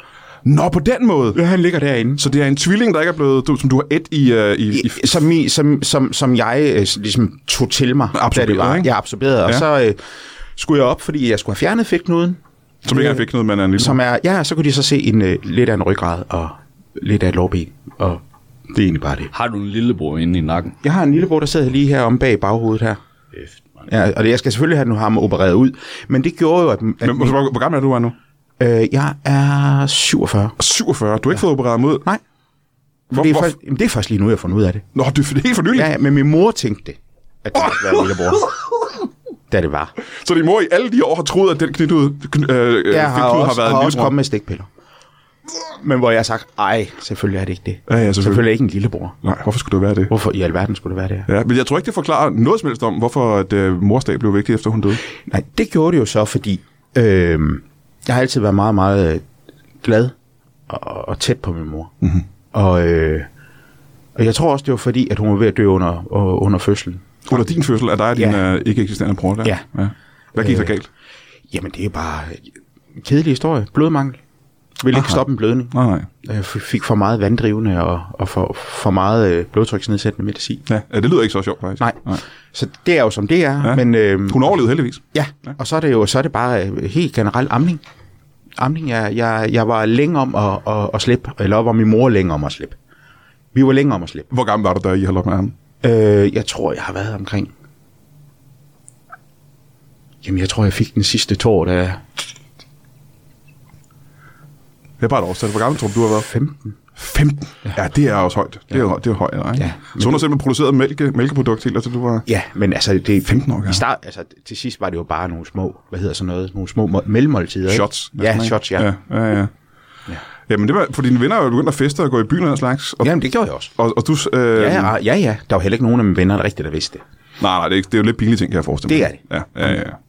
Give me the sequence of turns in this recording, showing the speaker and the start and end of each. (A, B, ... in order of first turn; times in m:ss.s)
0:00.4-0:01.4 A
0:01.3-0:02.2 B
0:02.2-0:05.2 A
0:04.7-0:10.0 B
0:08.1-0:08.9 A
0:10.5-0:13.2 B
0:12.8-0:14.0 A
0:13.8-0:19.3 B
0:19.3-0:20.8 C
0:20.8-0:23.0 B
0:23.3-0:23.9 C
0:23.9-0:27.4 B
0:27.0-0:28.1 A
0:28.6-0:30.6 B
0:30.6-0:32.0 A
0:33.1-0:33.6 A
0:33.1-0:34.8 B
0:34.9-0:35.9 A
0:35.7-0:38.5 B
0:39.5-0:39.9 B
0:40.1-0:44.1 A
0:42.9-0:44.7 B
0:45.8-0:49.2 B
0:47.9-0:48.5 A
0:49.2-0:50.1 A
0:50.1-0:51.3 B
0:51.3-0:55.0 A
0:55.2-0:59.2 B
0:59.8-1:00.1 B
1:00.7-1:01.9 B
1:02.5-1:03.3 B
1:04.2-1:07.4 B
1:07.2-1:10.9 A
1:08.1-1:08.4 B
1:10.4-1:10.7 B
1:11.5-1:14.2 B
1:14.8-1:20.6 B
1:14.9-1:16.1 A
1:20.7-1:22.2 A
1:21.8-1:24.6 B
1:23.6-1:25.5 A
1:25.1-1:27.8 B
1:28.6-1:32.8 B
1:33.5-1:34.3 B
1:34.3-1:35.5 A
1:35.8-1:37.5 B
1:40.2-1:42.0 B
1:45.0-1:46.3 A
1:46.2-1:46.7 B
1:47.0-1:52.3 A
1:49.6-1:50.2 B
1:52.2-1:58.9 B
1:53.2-1:53.8 A
1:57.7-1:59.5 A
2:00.5-2:03.1 A
2:03.0-2:03.7 B
2:03.7-2:04.9 A
2:04.5-2:07.0 B
2:07.4-2:10.0 A
2:08.9-2:09.8 B